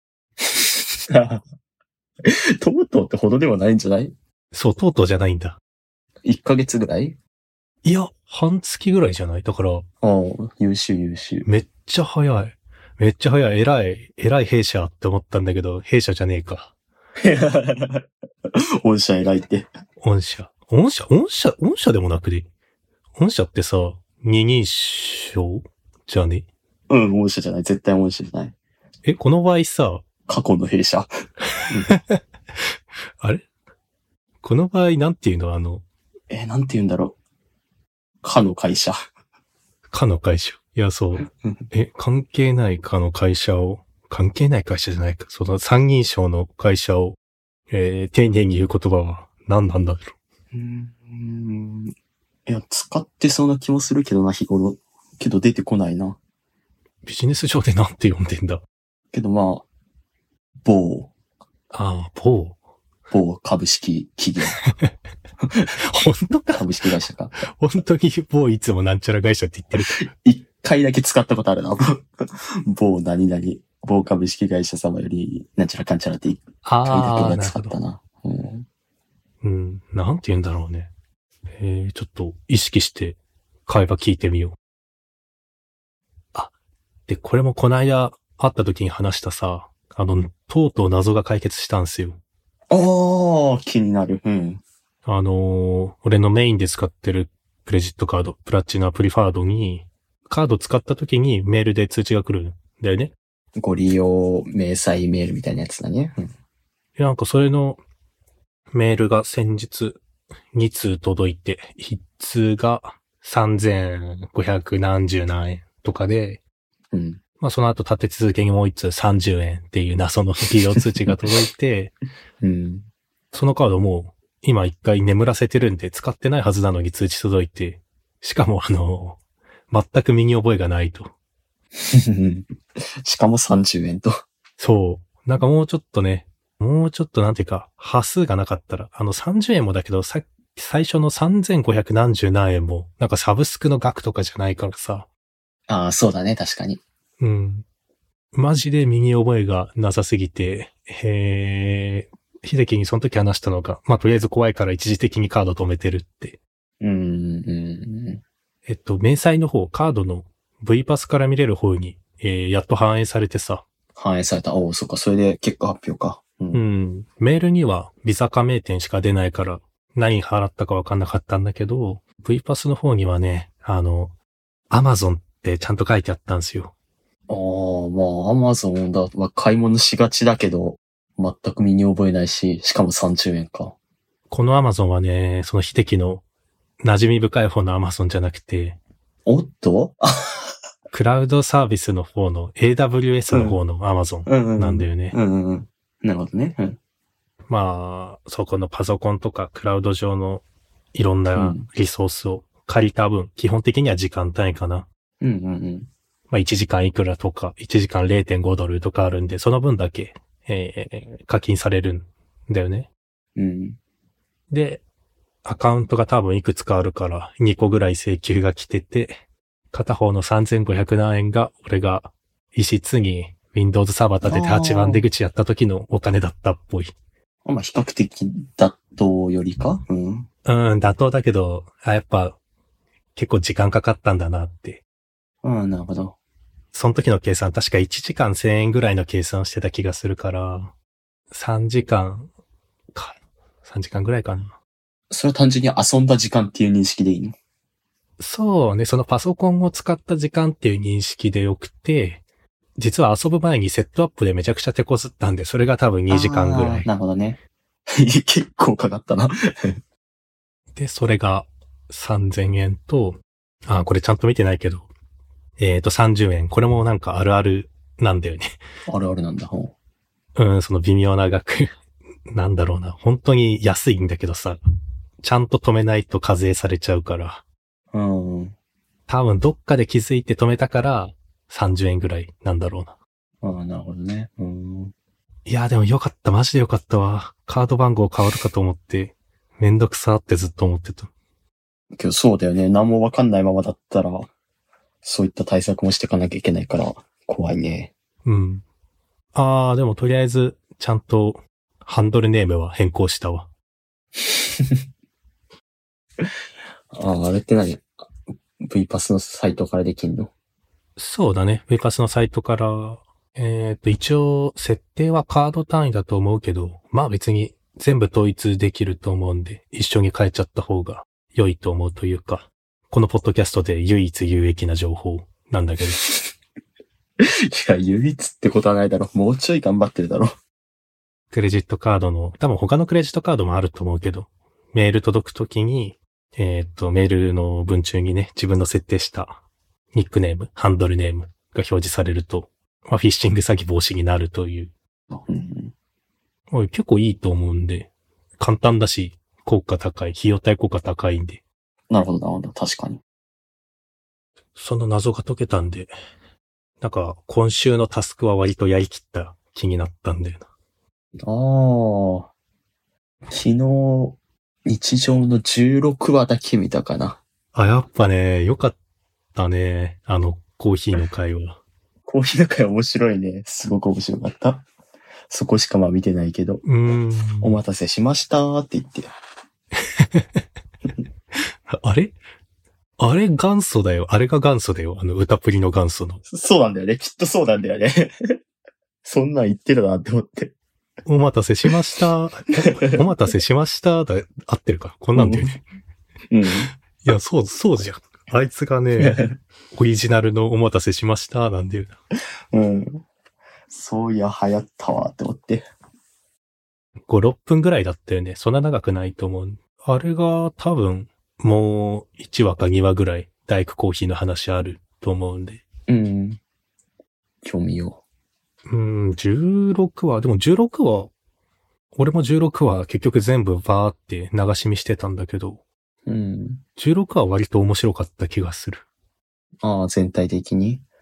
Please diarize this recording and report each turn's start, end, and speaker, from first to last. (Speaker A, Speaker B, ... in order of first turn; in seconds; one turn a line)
Speaker A: 0.4-1.4
Speaker A: 2.2-4.1
Speaker B: 4.5-5.6
Speaker A: 6.2-7.2
Speaker B: 7.8-9.8
Speaker A: 10.0-11.5
Speaker B: 11.4-16.7
Speaker A: 17.2-18.0
Speaker A: 18.8-19.7
Speaker B: 20.0-22.5
Speaker B: 23.1-26.5
Speaker A: 26.9-28.6
Speaker B: 29.0-30.0
Speaker A: 30.3-31.1
Speaker B: 31.6-32.2
Speaker A: 31.7-31.9
Speaker B: 33.2-33.5
Speaker B: 34.4-35.8
Speaker A: 36.3-37.1
Speaker A: 38.2-39.0
Speaker B: 39.9-47.2
Speaker A: 41.2-41.7
Speaker B: 47.7-50.1
Speaker A: 50.5-51.9
Speaker A: 52.5-56.2
Speaker B: 57.0-58.6
Speaker A: 59.1-59.6
Speaker A: 60.6-61.1
Speaker B: 61.7-62.6
Speaker A: 63.1-64.6
Speaker B: 65.9-66.6
Speaker A: 66.5-67.3
Speaker B: 67.4-69.9
Speaker A: 69.8-72.0
Speaker A: 72.6-78.7
Speaker B: 76.6-77.7
Speaker B: 79.4-80.9
Speaker B: 81.5-84.5
Speaker B: 87.1-92.2
Speaker A: 92.7-94.6
Speaker B: 95.0-103.1
Speaker A: 103.6-106.3
Speaker B: 107.0-107.8
Speaker B: 108.7-110.0
Speaker B: 110.5-116.4
Speaker A: 116.9-117.2
Speaker B: 117.4-121.9
Speaker A: 122.4-122.9
Speaker B: 123.3-129.2
Speaker B: 129.7-131.1
Speaker A: 131.8-132.5
Speaker A: 133.0-134.1
Speaker B: 134.6-145.1
Speaker A: 145.7-146.8
Speaker B: 147.2-147.7
Speaker B: 148.3-156.4
Speaker A: 156.8-158.2
Speaker B: 158.7-163.6
Speaker A: 163.9-166.6
Speaker B: 166.5-174.1
Speaker B: 174.7-176.7
Speaker A: 177.3-183.8
Speaker B: 184.3-186.2
Speaker B: 186.8-188.8
Speaker A: 189.2-190.1
Speaker B: 190.9-195.2
Speaker A: 193.3-193.6
Speaker A: 194.2-196.8
Speaker B: 197.5-204.9
Speaker A: 201.3-201.6
Speaker A: 205.2-205.9
Speaker B: 206.3-212.9
Speaker A: 213.3-213.8
Speaker B: 214.5-214.8
Speaker B: 215.4-226.9
Speaker A: 224.2-225.1
Speaker A: 227.4-230.3
Speaker B: 230.4-232.4
Speaker B: 233.1-234.8
Speaker A: 235.4-236.2
Speaker B: 236.7-240.7
Speaker B: 241.3-242.3
Speaker B: 242.9-244.5
Speaker A: 245.1-247.3
Speaker B: 248.2-252.2
Speaker B: 252.8-256.9
Speaker A: 256.1-257.4
Speaker A: 258.0-259.8
Speaker B: 260.7-264.9
Speaker B: 265.6-268.5
Speaker A: 268.9-269.7
Speaker B: 270.4-271.7
Speaker B: 272.3-274.6
Speaker B: 275.2-277.4
Speaker A: 277.9-278.6
Speaker B: 279.1-282.9
Speaker A: 283.4-284.9
Speaker B: 285.4-291.1
Speaker A: 292.0-294.3
Speaker A: 295.0-297.9
Speaker B: 298.2-298.6
Speaker B: 299.3-303.5
Speaker A: 304.2-304.8
Speaker A: 306.9-308.0
Speaker A: 308.6-310.3
Speaker B: 311.0-326.0
Speaker A: 327.2-330.3
Speaker B: 331.3-339.4
Speaker B: 339.9-344.7
Speaker A: 345.1-345.7
Speaker B: 346.5-351.4
Speaker A: 351.9-353.0
Speaker B: 354.6-355.9
Speaker B: 356.8-360.5
Speaker A: 361.2-362.3
Speaker A: 363.3-367.2
Speaker B: 367.5-368.8
Speaker B: 369.3-371.6
Speaker A: 372.1-374.6
Speaker A: 375.3-376.6
Speaker B: 376.6-377.6
Speaker A: 377.4-379.1
Speaker B: 380.0-380.4
Speaker B: 381.7-382.1
Speaker B: 383.0-386.2
Speaker A: 386.3-388.1
Speaker A: 389.0-390.6
Speaker B: 391.1-395.6
Speaker A: 395.1-395.5
Speaker A: 396.3-396.7
Speaker B: 397.0-399.2
Speaker A: 399.0-399.3
Speaker B: 399.7-401.9
Speaker A: 402.5-403.0
Speaker A: 403.7-405.6
Speaker B: 407.1-415.6
Speaker A: 415.9-416.4
Speaker A: 417.4-418.0
Speaker B: 418.7-421.1
Speaker B: 421.9-425.6
Speaker A: 426.1-426.6
Speaker B: 426.8-428.9
Speaker A: 429.6-430.8